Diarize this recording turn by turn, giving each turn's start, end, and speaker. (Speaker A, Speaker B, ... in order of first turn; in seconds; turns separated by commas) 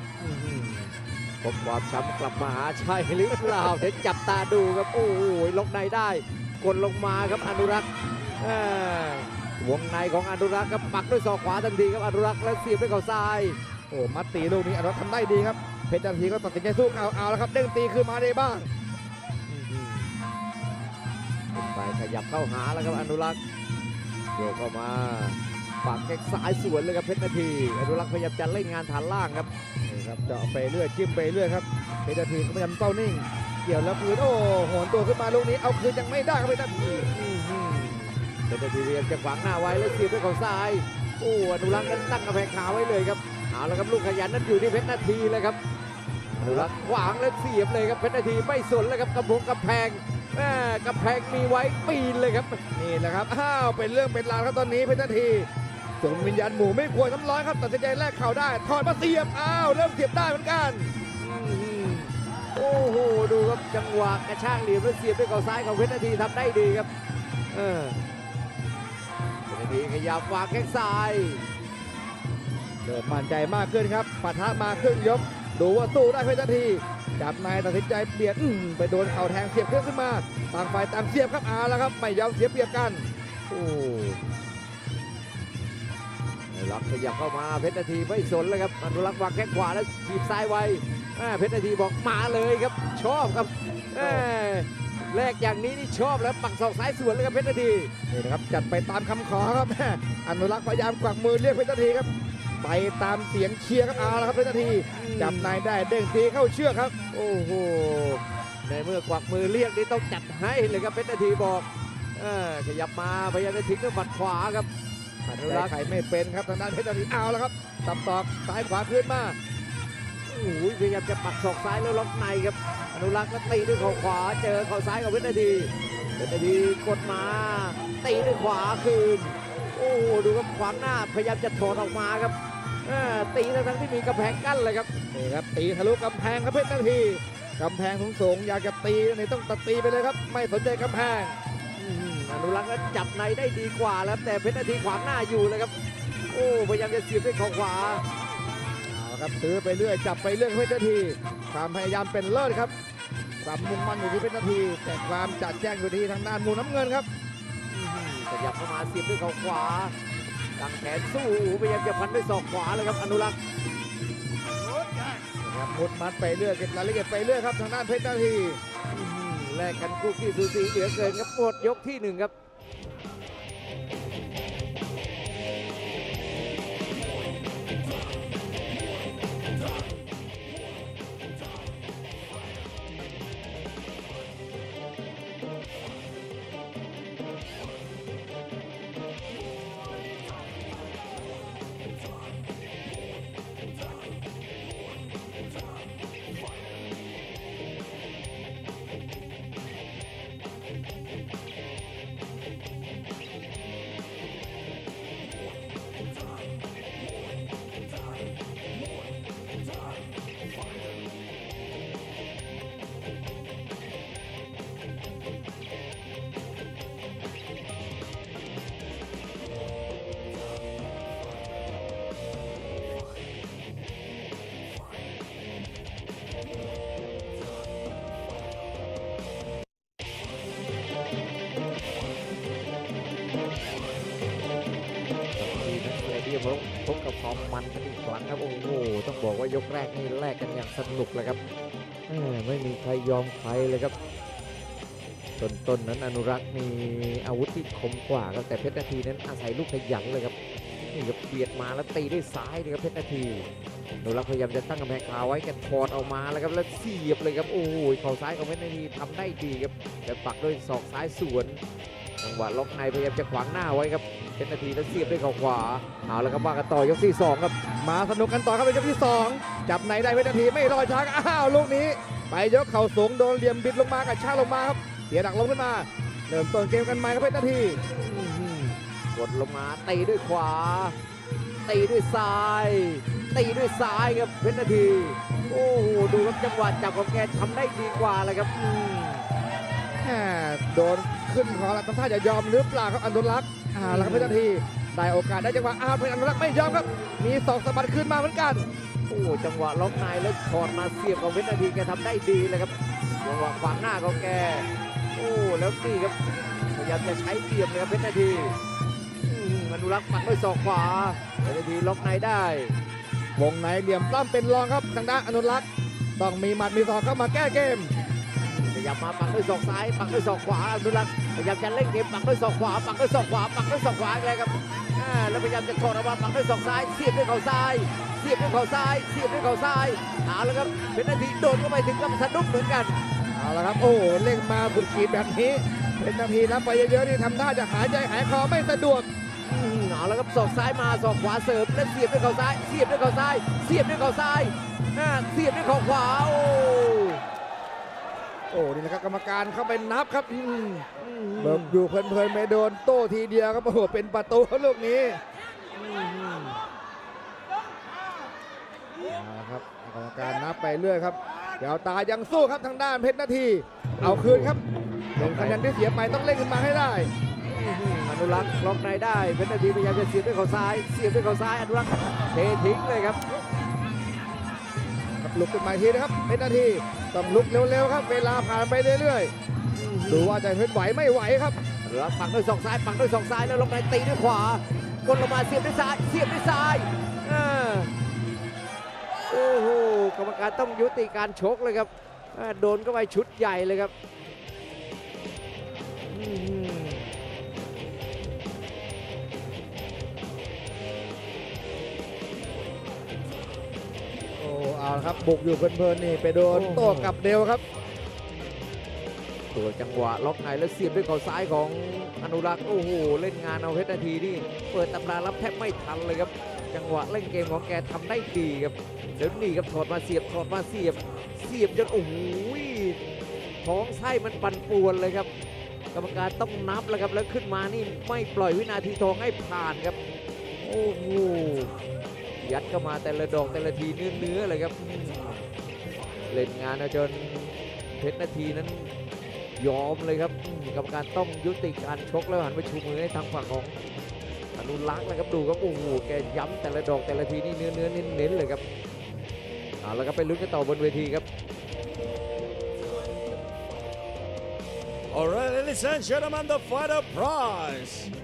Speaker A: 0.2-7.9, Speaker A: 8.4-13.6, Speaker B: 13.9-18.7, Speaker A: 19.5-20.1, Speaker A: 21.5-23.4, Speaker A: 24.4-29.5, Speaker B: 29.9-37.1, Speaker A: 37.1-45.6, Speaker B: 46.3-46.7, Speaker A: 46.4-52.6, Speaker B: 52.7-55.5, Speaker B: 56.0-60.9, Speaker A: 61.2-66.9, Speaker A: 67.5-68.0, Speaker A: 69.5-71.4, Speaker B: 72.8-83.1, Speaker A: 83.5-84.2, Speaker A: 86.5-97.9, Speaker B: 94.0-94.3, Speaker B: 98.1-107.0, Speaker A: 105.0-105.6, Speaker A: 107.1-114.7, Speaker B: 115.3-119.4, Speaker A: 115.4-115.7, Speaker A: 120.3-134.9, Speaker B: 135.1-141.4, Speaker A: 141.8-145.7, Speaker A: 146.3-148.0, Speaker B: 148.9-152.7, Speaker B: 153.4-157.1, Speaker A: 157.7-159.9, Speaker A: 160.6-163.4, Speaker B: 165.4-168.6, Speaker A: 168.9-172.3, Speaker A: 235.4-241.4, Speaker A: 242.1-243.9, Speaker A: 245.4-250.3, Speaker A: 250.9-253.5, Speaker A: 254.0-261.6, Speaker A: 262.2-267.6, Speaker B: 267.8-277.8, Speaker A: 278.0-281.0, Speaker A: 281.7-289.3, Speaker B: 290.0-298.7, Speaker A: 293.8-294.4, Speaker A: 299.1-308.6, Speaker A: 309.2-312.7, Speaker B: 313.4-315.7, Speaker B: 316.2-317.9, Speaker A: 318.4-333.0, Speaker B: 333.3-339.1, Speaker A: 339.4-347.2, Speaker B: 348.5-350.9, Speaker A: 351.0-351.8, Speaker B: 351.4-355.2, Speaker A: 355.8-356.6, Speaker B: 359.1-364.6, Speaker A: 364.0-364.6, Speaker A: 365.2-365.7, Speaker B: 365.2-367.1, Speaker A: 367.5-373.2, Speaker B: 375.2-379.3, Speaker A: 379.8-380.4, Speaker B: 380.1-381.6, Speaker A: 381.9-387.9, Speaker A: 389.3-393.9, Speaker A: 396.1-397.1, Speaker B: 404.4-407.6, Speaker A: 406.5-407.2, Speaker A: 409.5-423.0, Speaker A: 423.6-425.3, Speaker A: 425.9-430.0, Speaker A: 430.6-431.7, Speaker A: 432.4-435.4, Speaker A: 436.3-438.9, Speaker A: 439.6-443.8, Speaker A: 444.6-448.6, Speaker A: 449.8-451.3, Speaker C: 455.1-458.1